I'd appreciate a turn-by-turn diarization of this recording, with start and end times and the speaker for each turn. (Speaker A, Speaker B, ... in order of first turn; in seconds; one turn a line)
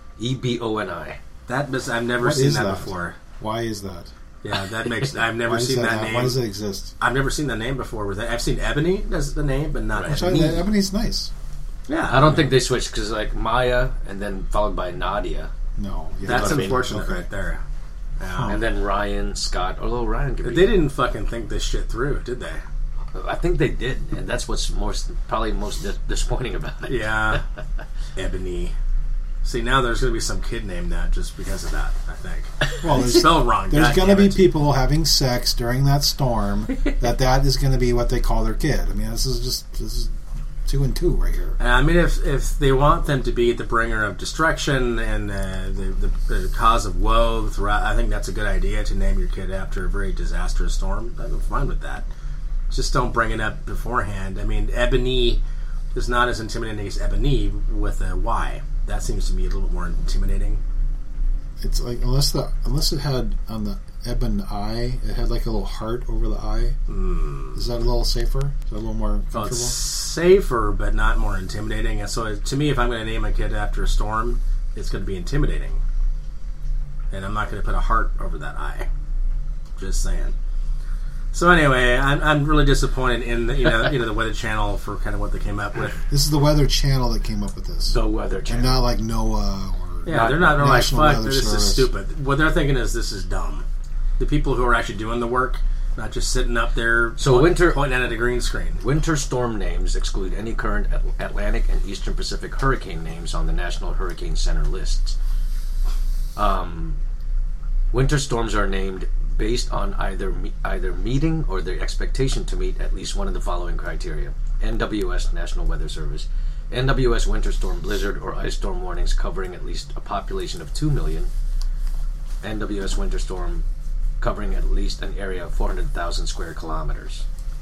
Speaker A: 0.2-1.2
Speaker B: 1.5-3.2
Speaker C: 2.2-4.1
Speaker B: 4.4-6.4
Speaker C: 5.4-6.9
Speaker B: 7.0-10.7
Speaker C: 10.0-11.3
Speaker B: 11.9-12.4
Speaker A: 12.1-15.5
Speaker C: 15.8-17.3
Speaker B: 16.2-17.6
Speaker A: 16.3-16.8
Speaker B: 18.2-18.6
Speaker C: 18.3-18.6
Speaker A: 18.5-20.8
Speaker B: 20.4-22.6
Speaker A: 23.1-27.4
Speaker B: 26.9-27.4
Speaker B: 28.1-28.7
Speaker B: 29.4-34.5
Speaker C: 32.8-41.6
Speaker B: 41.6-52.0
Speaker B: 52.7-55.4
Speaker B: 55.9-60.6
Speaker C: 61.6-66.8
Speaker B: 66.9-67.6
Speaker C: 67.5-69.7
Speaker B: 69.3-75.8
Speaker B: 77.1-78.9
Speaker B: 79.8-80.3
Speaker B: 81.3-86.0
Speaker C: 86.1-88.0
Speaker A: 87.9-88.8
Speaker C: 88.5-91.9
Speaker B: 90.0-93.6
Speaker A: 90.1-90.5
Speaker B: 94.2-98.8
Speaker A: 97.2-97.8
Speaker A: 98.8-105.2
Speaker A: 106.3-107.0
Speaker A: 107.9-121.3
Speaker A: 122.4-123.6
Speaker A: 124.2-127.2